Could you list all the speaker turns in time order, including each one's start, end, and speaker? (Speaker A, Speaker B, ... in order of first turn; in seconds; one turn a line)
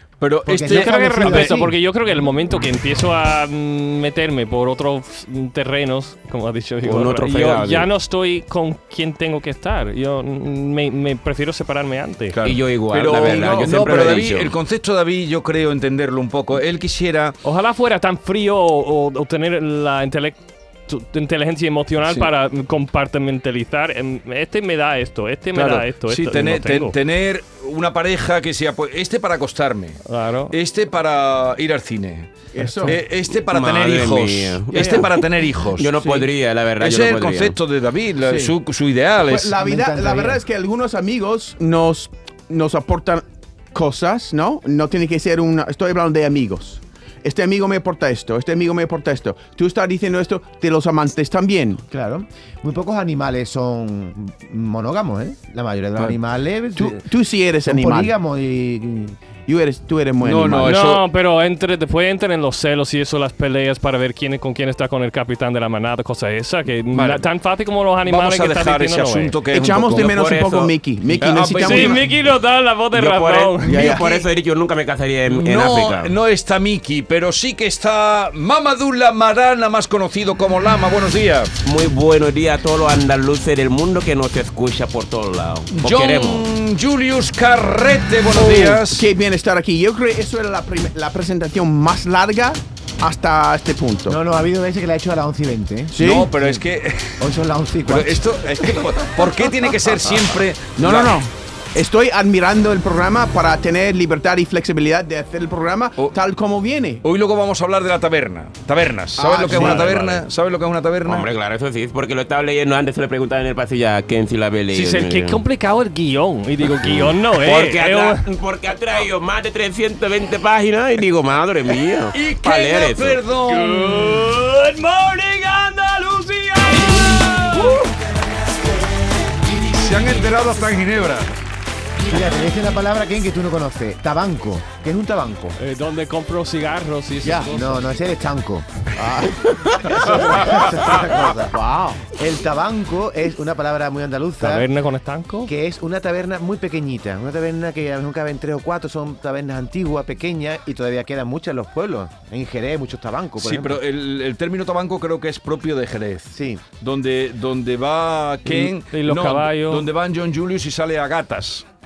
Speaker A: 0.2-1.6
Speaker B: 0.5-1.7
Speaker C: 0.6-12.4
Speaker D: 6.8-7.9
Speaker A: 12.3-17.4
Speaker D: 12.4-14.5
Speaker E: 13.1-13.8
Speaker C: 17.4-27.0
Speaker A: 25.5-30.0
Speaker C: 30.1-30.5
Speaker A: 30.5-32.3
Speaker E: 32.5-33.0
Speaker C: 32.7-33.0
Speaker A: 32.8-35.9
Speaker D: 33.3-35.2
Speaker E: 34.7-35.1
Speaker D: 35.8-37.6
Speaker E: 35.9-36.3
Speaker A: 36.8-39.5
Speaker E: 38.2-38.5
Speaker E: 39.2-51.8
Speaker B: 39.6-40.4
Speaker B: 51.9-57.0
Speaker E: 56.8-58.1
Speaker B: 57.6-59.2
Speaker E: 59.5-60.7
Speaker A: 60.2-61.0
Speaker C: 60.6-69.4
Speaker A: 66.9-67.2
Speaker A: 68.0-70.4
Speaker E: 69.5-72.0
Speaker D: 69.8-71.6
Speaker A: 71.1-72.0
Speaker C: 71.6-73.9
Speaker D: 72.9-76.1
Speaker E: 73.6-74.2
Speaker A: 75.3-81.5
Speaker D: 81.6-86.4
Speaker A: 85.7-89.1
Speaker E: 88.3-94.2
Speaker B: 94.1-96.7
Speaker E: 95.9-96.3
Speaker A: 96.0-97.2
Speaker B: 97.2-98.8
Speaker A: 97.8-101.2
Speaker E: 100.8-107.0
Speaker A: 107.0-111.3
Speaker E: 109.2-110.2
Speaker D: 111.0-115.4
Speaker C: 114.7-118.2
Speaker D: 116.6-123.2
Speaker A: 122.1-124.4
Speaker C: 123.5-127.7
Speaker A: 127.5-127.8
Speaker A: 129.5-131.3
Speaker B: 132.0-135.6
Speaker C: 135.6-137.9
Speaker E: 137.2-137.5
Speaker B: 137.5-138.7
Speaker E: 138.9-140.5
Speaker B: 139.8-144.7
Speaker E: 141.5-142.0
Speaker C: 144.4-145.5
Speaker B: 145.4-153.8
Speaker A: 153.4-161.7
Speaker B: 156.3-156.6
Speaker C: 158.9-159.9